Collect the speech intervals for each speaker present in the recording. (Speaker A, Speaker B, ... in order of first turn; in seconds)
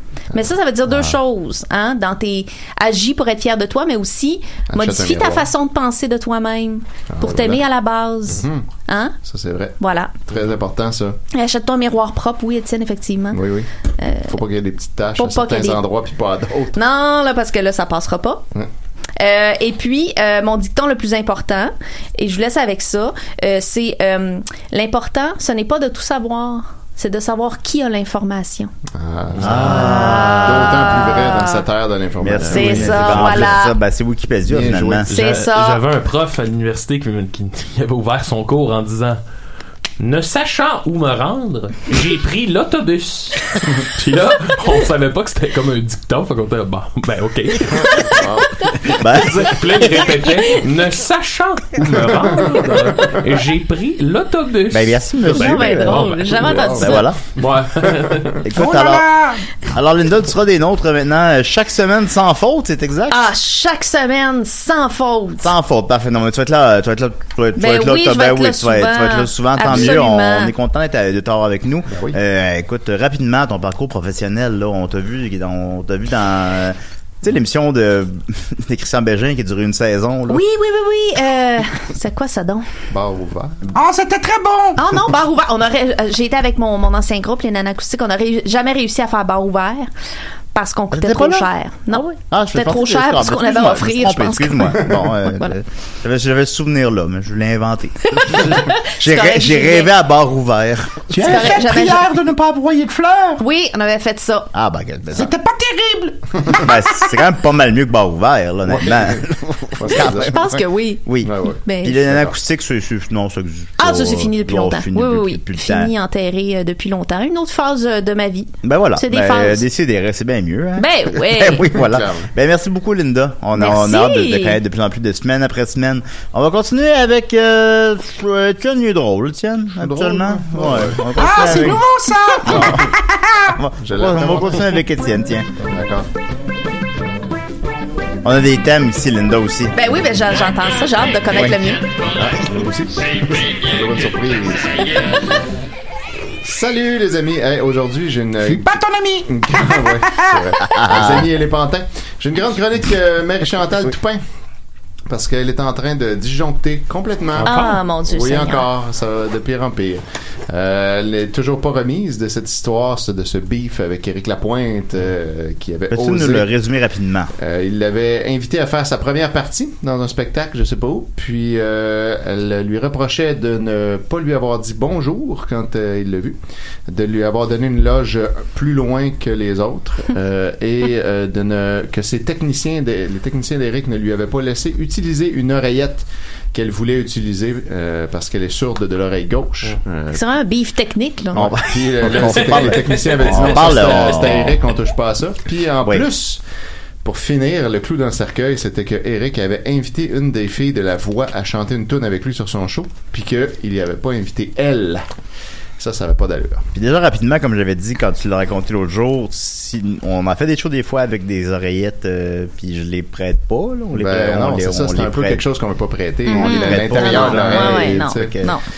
Speaker A: 0.3-9.2, 9.8-10.2, 11.3-13.4, 14.0-14.4, 15.2-15.8, 16.7-18.4, 19.2-28.7, 29.7-31.6, 32.5-33.8, 35.1-35.8, 55.3-57.0, 63.1-65.5, 67.5-70.5, 80.3-82.7, 84.8-89.9, 90.5-95.5, 98.2-99.9, 101.2-102.1, 103.4-104.5, 110.0-111.1, 111.6-112.0, 113.8-119.6, 120.8-121.7, 123.5-124.6, 139.7-141.8, 157.4-158.7, 190.1-191.5, 216.3-218.6
Speaker B: 4.7-5.5, 7.1-7.6, 8.3-8.7, 9.2-9.7, 10.3-11.2, 13.3-13.7, 14.3-16.8, 28.9-33.5, 34.5-35.1, 48.0-48.6, 51.8-53.2, 56.4-56.9, 57.4-58.4, 71.9-72.2, 82.9-83.7, 108.7-109.2, 109.8-110.5, 111.2-112.3, 121.7-122.3, 129.8-131.6, 132.4-132.9, 133.8-134.8, 135.6-136.1, 142.1-145.2, 146.4-154.2, 155.1-166.5, 167.4-176.4, 176.9-190.2, 191.3-196.4, 197.0-205.0, 205.8-206.7, 213.9-218.5
Speaker C: 29.3-30.0, 35.1-39.2, 40.0-48.3, 48.9-58.4, 157.4-157.8, 192.5-194.3
Speaker D: 29.4-31.1, 32.2-35.1, 49.0-50.0, 54.7-57.2, 58.4-59.1, 59.6-63.3, 65.4-80.4, 90.9-101.5, 104.5-105.3, 106.6-111.3, 111.8-115.9, 118.6-131.8, 132.4-132.9, 133.5-135.5, 138.2-139.7, 150.6-151.3, 165.9-167.3, 191.3-194.7, 206.7-215.4, 216.3-218.6
Speaker E: 58.5-59.4, 83.7-84.8, 101.1-103.4, 105.1-106.2, 131.2-133.5, 148.4-149.3, 150.0-150.5